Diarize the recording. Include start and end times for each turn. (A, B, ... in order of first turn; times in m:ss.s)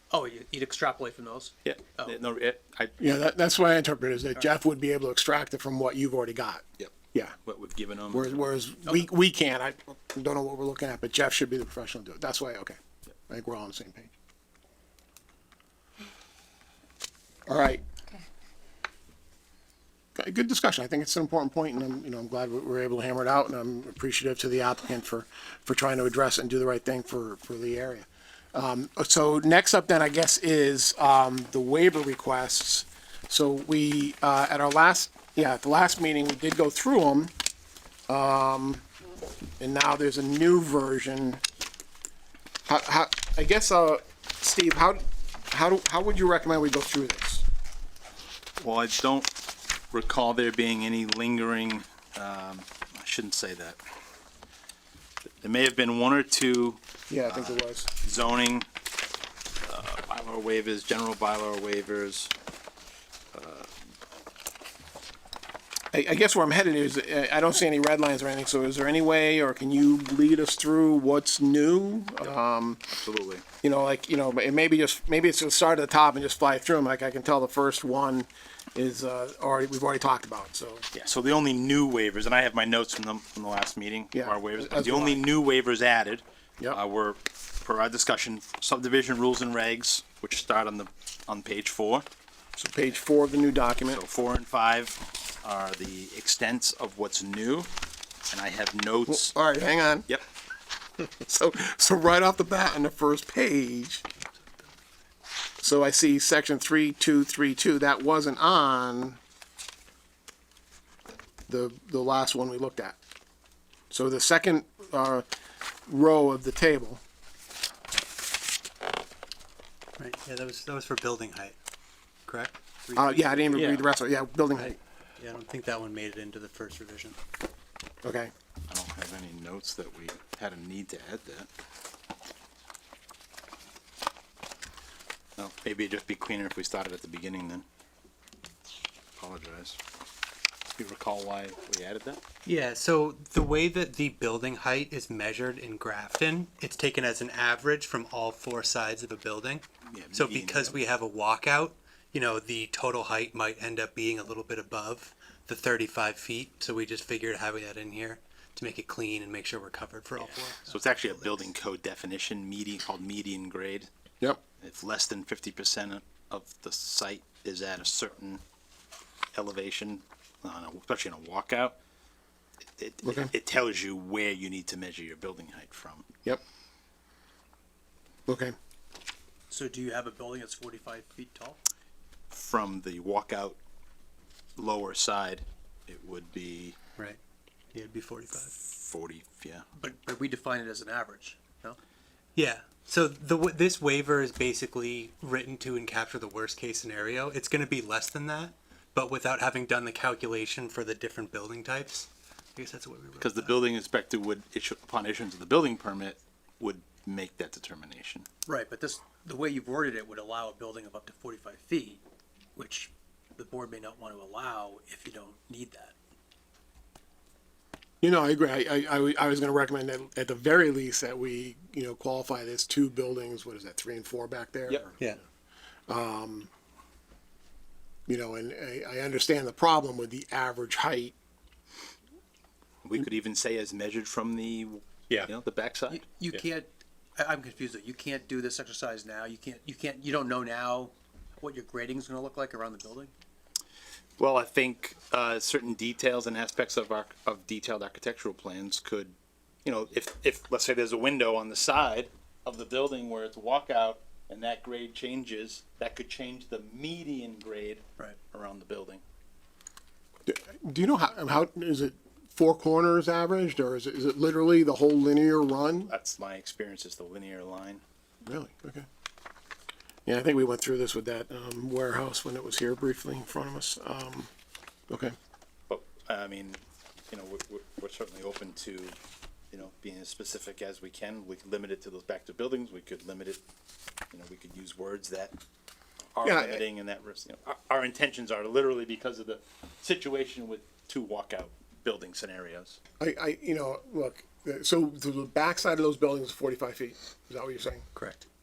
0:00.1-0:02.2 A
0:01.6-0:03.0 B
0:03.0-0:07.4 C
0:07.4-0:08.5 B
0:08.1-0:12.8 C
0:13.3-0:14.1 C
0:17.5-0:17.8 C
0:20.2-0:37.3 C
0:38.1-0:38.8 C
0:39.6-0:41.4 C
0:42.7-0:47.4 C
0:48.6-0:49.3 B
0:49.9-0:53.8 B
0:55.4-0:58.7 B
0:57.1-0:57.9 C
0:59.7-1:02.3 B
1:03.3-1:03.7 B
1:05.9-1:12.8 C
1:12.9-1:13.4 B
1:13.6-1:20.9 C
1:20.9-1:32.0 B
1:24.1-1:25.2 C
1:32.6-1:34.0 C
1:33.9-1:37.7 B
1:38.3-1:39.4 B
1:39.1-1:40.1 C
1:41.0-1:44.0 C
1:45.6-1:49.2 C
1:51.5-1:53.0 C
1:53.9-1:55.2 C
1:55.9-1:57.0 C
2:00.0-2:01.6 D
2:02.3-2:03.8 D
2:03.0-2:04.8 C
2:03.0-2:03.6 A
2:04.6-2:07.2 D
2:08.0-2:08.3 C
2:08.7-2:11.5 B
2:15.4-2:17.6 B
2:19.2-2:19.8 B
2:20.8-2:22.2 B
2:22.4-2:40.9 D
2:29.9-2:30.8 B
2:40.6-2:43.9 B
2:44.6-2:48.4 B
2:49.4-2:51.8 B
2:52.8-2:56.1 B
2:53.0-2:53.3 C
2:58.3-2:58.5 C
2:59.5-3:01.6 A
3:02.3-3:03.6 B
3:04.6-3:06.8 B
3:07.7-3:08.5 D
3:08.6-3:09.7 B
3:09.8-3:11.8 A
3:12.4-3:23.6 D
3:23.2-3:28.3 B
3:28.5-3:32.0 A
3:32.6-3:36.0 A
3:38.0-3:44.9 C
3:45.9-3:46.5 C
3:48.1-3:51.1 C
3:52.8-3:56.4 B
3:55.9-4:03.1 A
4:04.2-4:19.0 B
4:20.3-4:25.9 C
4:25.9-4:27.8 B
4:28.2-4:28.9 C
4:30.1-4:34.3 C
4:34.9-4:35.1 C
4:35.7-4:39.0 B
4:39.5-4:43.4 B
4:44.1-4:45.3 B
4:46.2-4:52.8 B
4:46.2-4:46.6 C
4:53.0-4:57.9 C
4:58.0-4:58.2 D